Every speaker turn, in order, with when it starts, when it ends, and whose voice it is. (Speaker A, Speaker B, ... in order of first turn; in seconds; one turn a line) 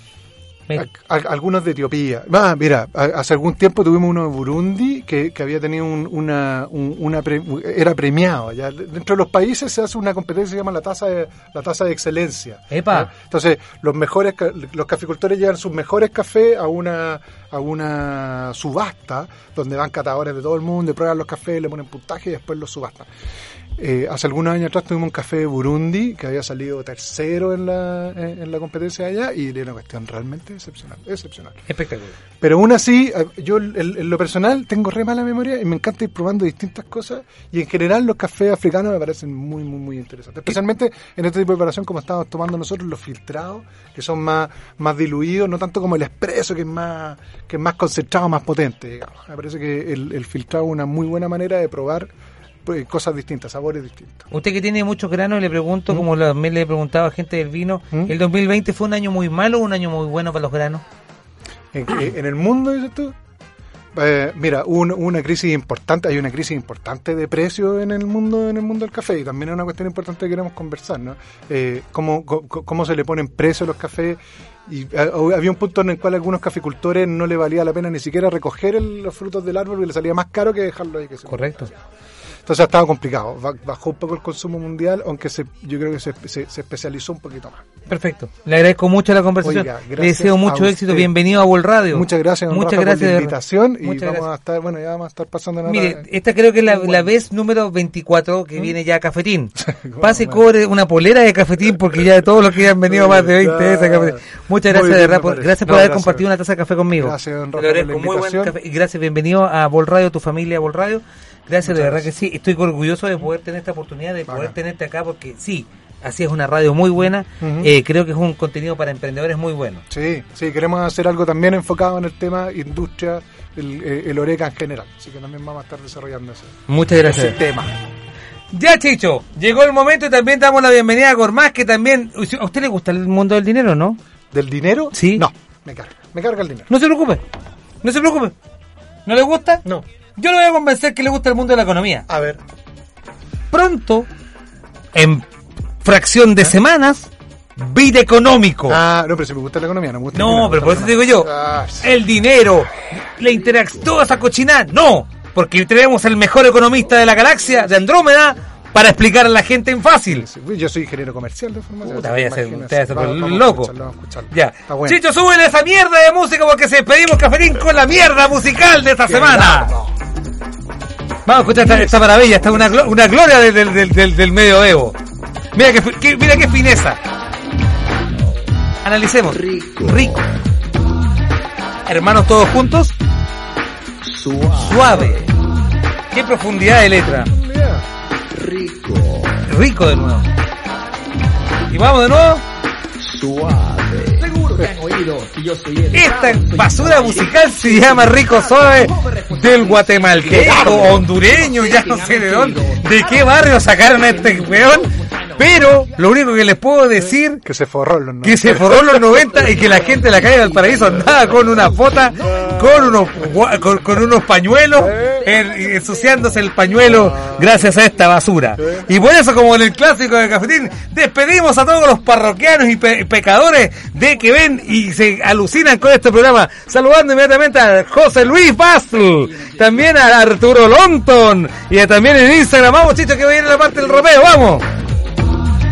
Speaker A: 0.7-23.1
Speaker B: 12.7-13.1
Speaker A: 23.8-31.6
Speaker B: 31.7-32.1
Speaker A: 32.4-52.1
Speaker A: 52.6-54.3
Speaker B: 54.3-60.9
Speaker A: 61.7-63.1
Speaker A: 63.9-81.7
Speaker B: 81.3-81.7
Speaker A: 82.5-87.7
Speaker B: 87.9-94.3
Speaker A: 89.4-91.1
Speaker A: 91.9-96.0
Speaker B: 95.7-119.8
Speaker A: 96.6-97.1
Speaker A: 99.6-100.4
Speaker A: 102.8-106.3
Speaker A: 106.9-108.5
Speaker A: 111.6-112.1
Speaker A: 114.3-114.6
Speaker A: 117.4-117.7
Speaker A: 119.9-127.7
Speaker B: 126.7-127.5
Speaker B: 128.5-134.0
Speaker A: 134.3-136.7
Speaker B: 134.9-135.2
Speaker B: 136.7-137.3
Speaker B: 137.8-138.3
Speaker B: 139.1-139.6
Speaker B: 140.2-142.1
Speaker A: 142.1-142.4
Speaker B: 143.5-144.1
Speaker B: 144.9-145.3
Speaker B: 145.8-148.8
Speaker A: 148.7-151.9
Speaker B: 150.1-160.3
Speaker A: 160.1-165.0
Speaker B: 161.8-163.7
Speaker B: 164.3-169.7
Speaker A: 169.0-169.9
Speaker B: 171.3-175.0
Speaker A: 171.4-172.8
Speaker B: 175.6-177.0
Speaker B: 178.8-180.2
Speaker C: 179.3-180.2
Speaker B: 181.9-183.0
Speaker C: 184.0-185.3
Speaker B: 184.6-185.3
Speaker B: 186.1-187.3
Speaker A: 187.1-187.8
Speaker C: 188.3-189.4
Speaker B: 189.5-190.3
Speaker B: 191.7-192.4
Speaker C: 193.0-206.0
Speaker B: 195.9-207.4
Speaker A: 207.0-209.2
Speaker B: 208.2-234.7
Speaker C: 209.1-213.1
Speaker A: 212.3-212.7
Speaker A: 214.8-215.2
Speaker C: 215.1-216.7
Speaker A: 216.9-217.5
Speaker A: 218.6-218.9